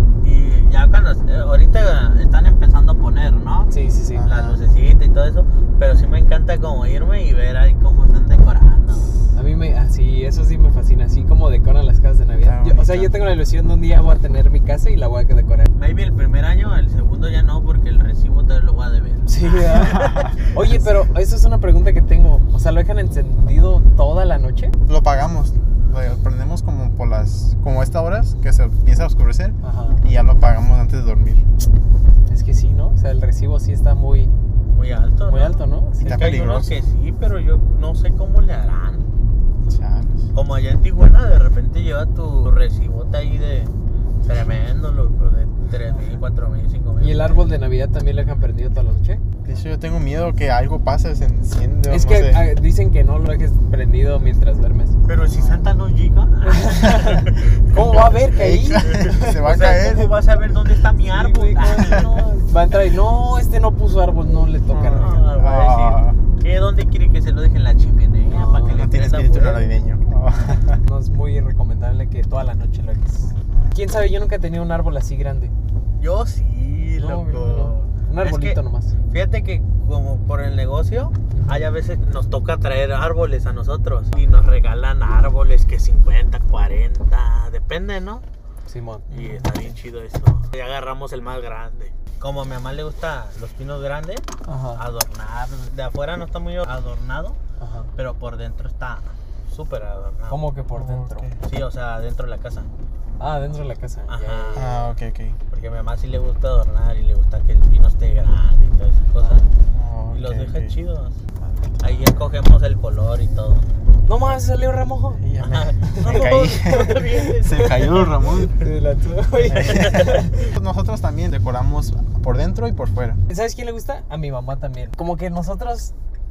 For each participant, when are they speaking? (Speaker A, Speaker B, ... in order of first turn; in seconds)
Speaker A: 0.2-3.7, 4.2-9.1, 15.7-20.1, 34.7-39.1, 40.3-43.7, 44.2-47.5, 55.0-57.6, 58.8-62.2, 64.9-69.8, 76.0-88.2, 89.1-97.4, 98.0-100.4, 101.4-102.7, 104.1-104.9, 105.5-109.5, 110.1-111.2, 111.8-113.7, 115.4-118.5, 119.5-120.2
Speaker B: 3.7-4.3, 9.3-15.7, 19.3-24.8, 29.6-30.0, 32.3-34.3, 35.3-36.3, 47.0-49.2, 51.9-55.0, 56.4-60.0, 61.1-65.3, 68.3-68.8, 70.8-75.5, 77.0-78.9, 81.3-81.7, 88.7-89.1, 94.5-94.8, 97.6-97.9, 100.3-101.3, 103.2-104.7, 109.2-109.4, 114.0-115.2, 115.8-117.2, 118.6-120.5, 123.3-125.9
Speaker C: 4.1-4.6, 12.4-13.1, 19.7-20.8, 24.9-31.4, 36.0-36.7, 39.7-40.3, 49.4-52.5, 55.2-55.7, 57.9-60.2, 64.7-66.2, 68.7-70.8, 73.2-73.8, 89.1-89.5, 100.7-101.4, 104.5-105.4, 109.7-110.8, 111.4-111.7, 115.2-118.6, 119.5-123.2